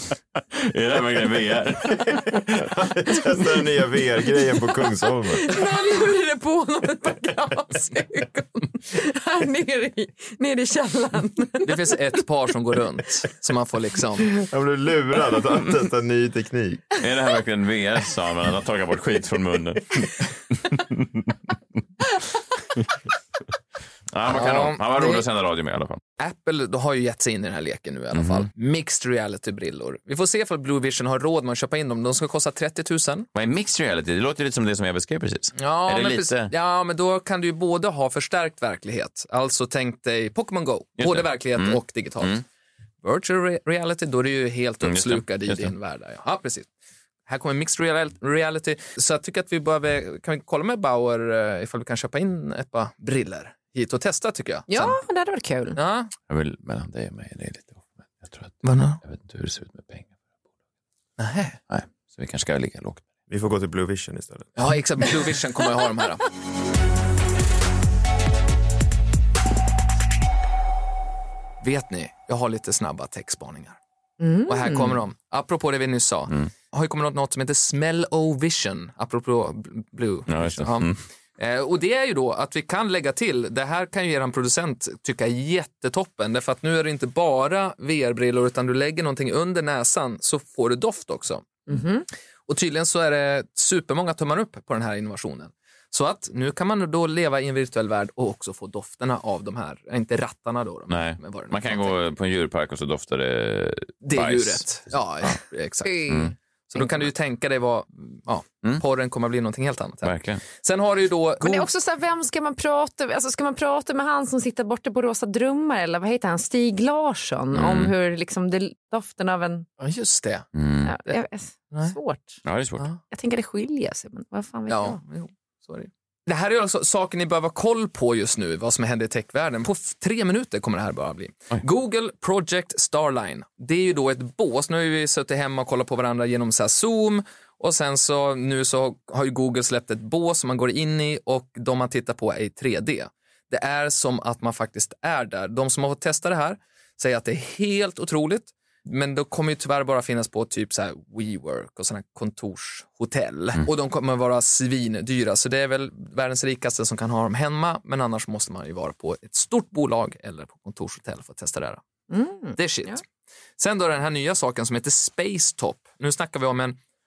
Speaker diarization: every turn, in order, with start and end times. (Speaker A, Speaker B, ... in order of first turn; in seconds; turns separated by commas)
Speaker A: 0.4-2.6, Speaker B: 2.1-5.6, Speaker C: 5.3-11.8, Speaker D: 11.6-14.3, Speaker B: 14.4-16.8, Speaker A: 17.0-21.3, Speaker A: 24.1-26.0, Speaker D: 24.2-25.2, Speaker D: 26.2-33.3, Speaker A: 28.1-28.5, Speaker A: 33.3-36.5, Speaker D: 35.5-42.4, Speaker A: 41.0-42.4, Speaker D: 43.0-46.7, Speaker A: 44.8-45.7, Speaker D: 47.3-55.0, Speaker C: 54.7-55.8, Speaker D: 55.8-56.1, Speaker A: 56.3-60.1, Speaker D: 58.6-59.0, Speaker D: 61.2-61.6, Speaker A: 61.7-63.0, Speaker B: 63.3-64.5, Speaker D: 64.5-66.2, Speaker D: 71.6-73.8, Speaker C: 74.2-75.0, Speaker D: 74.5-91.8, Speaker A: 80.3-81.0, Speaker C: 91.7-92.0, Speaker D: 92.5-102.0, Speaker A: 100.9-105.4, Speaker D: 104.0-111.7, Speaker C: 105.8-107.0, Speaker A: 106.1-106.3, Speaker A: 110.0-110.4, Speaker C: 111.4-119.7, Speaker A: 117.5-117.9, Speaker D: 119.8-120.5, Speaker A: 120.5-121.0, Speaker C: 120.8-122.4, Speaker A: 122.4-122.9, Speaker C: 123.0-125.0, Speaker D: 124.7-161.8, Speaker C: 162.1-163.0, Speaker D: 162.5-163.0, Speaker D: 163.6-166.8